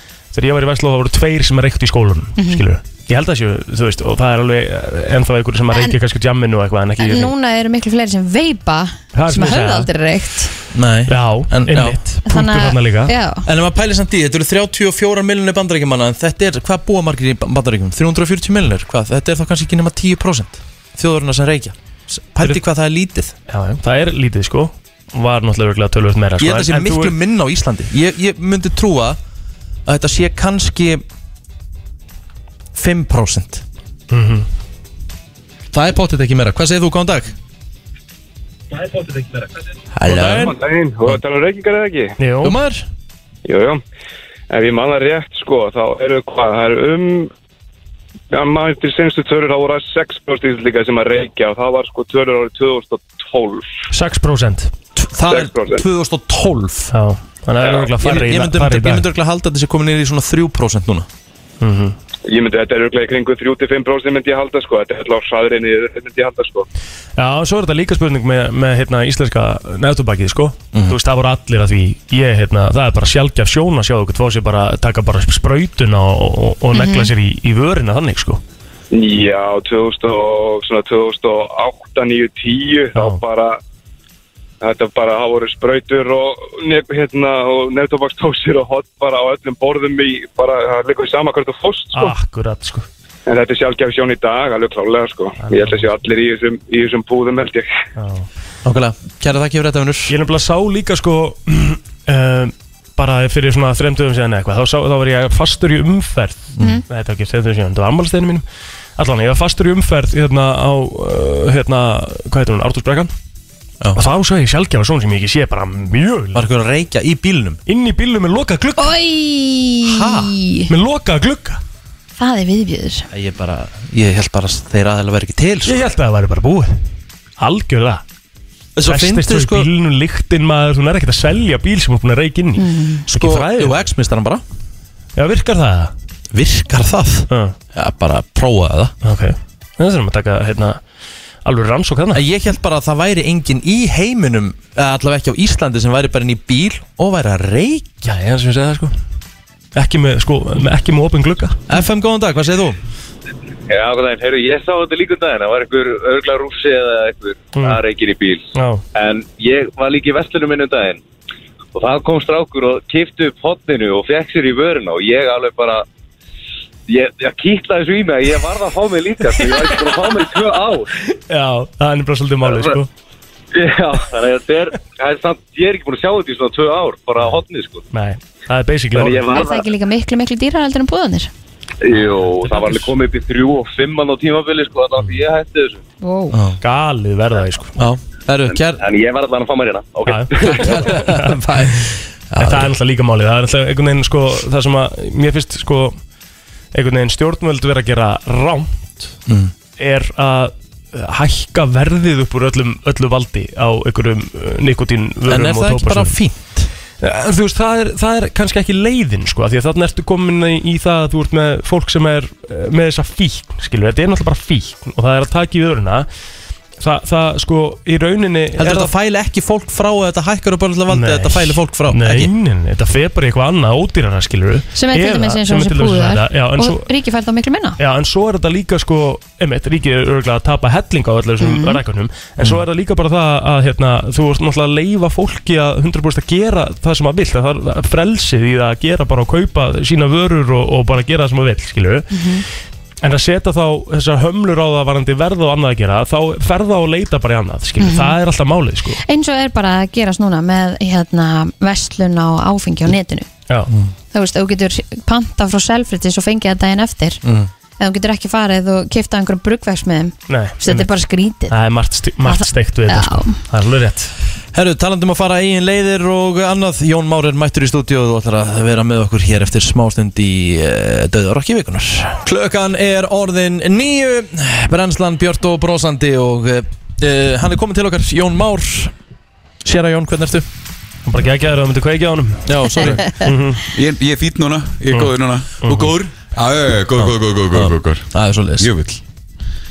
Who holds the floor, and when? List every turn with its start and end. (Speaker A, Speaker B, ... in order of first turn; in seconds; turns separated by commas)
Speaker A: 0.3-7.3, Speaker B: 5.7-6.0, Speaker B: 7.0-10.5, Speaker A: 9.1-9.9, Speaker C: 10.7-12.0, Speaker A: 11.1-13.1, Speaker B: 12.3-13.5, Speaker C: 13.5-23.3, Speaker A: 23.5-27.1, Speaker C: 26.4-29.2, Speaker C: 29.9-31.0, Speaker C: 32.8-33.6, Speaker A: 34.1-34.5, Speaker C: 35.7-37.4, Speaker C: 40.0-40.5, Speaker D: 40.1-42.1, Speaker A: 42.2-42.5, Speaker C: 42.4-42.9, Speaker D: 43.5-43.8, Speaker D: 44.5-47.3, Speaker D: 48.3-53.7, Speaker A: 53.9-54.7, Speaker C: 55.0-56.9, Speaker D: 55.3-55.8, Speaker A: 56.9-59.1, Speaker C: 58.0-61.1, Speaker A: 61.6-62.0, Speaker D: 62.3-66.7, Speaker A: 67.2-78.4, Speaker B: 76.7-77.1, Speaker D: 78.9-83.6, Speaker A: 83.0-83.2, Speaker D: 84.6-92.1, Speaker A: 91.9-92.9, Speaker D: 93.3-97.7, Speaker A: 95.4-95.8, Speaker A: 98.0-98.3, Speaker C: 98.6-100.2, Speaker A: 100.1-108.4, Speaker A: 109.0-113.1, Speaker A: 114.0-116.5, Speaker C: 116.3-117.6, Speaker A: 117.7-119.0, Speaker B: 118.8-120.7, Speaker C: 119.8-120.3, Speaker A: 120.7-121.6, Speaker B: 122.2-123.1, Speaker C: 123.1-125.8, Speaker A: 125.7-126.8, Speaker A: 127.4-128.0, Speaker C: 128.8-129.7, Speaker A: 128.9-133.8, Speaker B: 132.6-133.0, Speaker C: 133.1-134.4, Speaker A: 135.2-135.9, Speaker C: 136.3-138.9, Speaker A: 137.3-137.6, Speaker A: 139.0-140.8, Speaker A: 141.4-142.2, Speaker C: 142.1-148.1, Speaker A: 148.0-148.9, Speaker A: 149.8-151.6, Speaker C: 151.7-152.8, Speaker E: 153.7-161.0, Speaker A: 158.6-158.8, Speaker E: 161.7-165.8, Speaker E: 166.9-170.9, Speaker A: 171.3-172.9, Speaker E: 172.4-172.8, Speaker E: 173.5-177.9, Speaker A: 177.9-179.3, Speaker E: 178.9-179.6, Speaker B: 179.3-181.3, Speaker E: 181.8-185.8, Speaker B: 186.0-186.4, Speaker C: 186.3-186.6, Speaker A: 186.6-187.8, Speaker C: 187.8-188.8, Speaker E: 188.5-190.9, Speaker A: 190.1-191.4, Speaker C: 190.4-192.7, Speaker A: 192.4-196.0, Speaker A: 196.7-199.2, Speaker C: 199.3-199.5, Speaker A: 199.8-206.2, Speaker C: 205.3-206.7, Speaker A: 207.0-216.1, Speaker A: 216.8-218.9, Speaker C: 218.6-222.3, Speaker A: 220.9-226.9, Speaker B: 224.8-227.8, Speaker A: 227.8-242.1, Speaker B: 231.4-231.8, Speaker B: 242.1-242.4, Speaker A: 243.0-249.0, Speaker B: 247.8-248.2, Speaker B: 249.0-253.3, Speaker B: 254.1-257.2, Speaker C: 257.2-257.5, Speaker B: 257.8-261.5, Speaker A: 260.3-260.9, Speaker A: 261.5-264.1, Speaker B: 262.2-263.4, Speaker C: 264.5-278.9, Speaker C: 279.6-280.5, Speaker A: 281.1-283.7, Speaker C: 282.5-283.1, Speaker F: 283.7-288.1, Speaker A: 284.9-285.9, Speaker C: 287.0-288.9, Speaker F: 288.6-289.0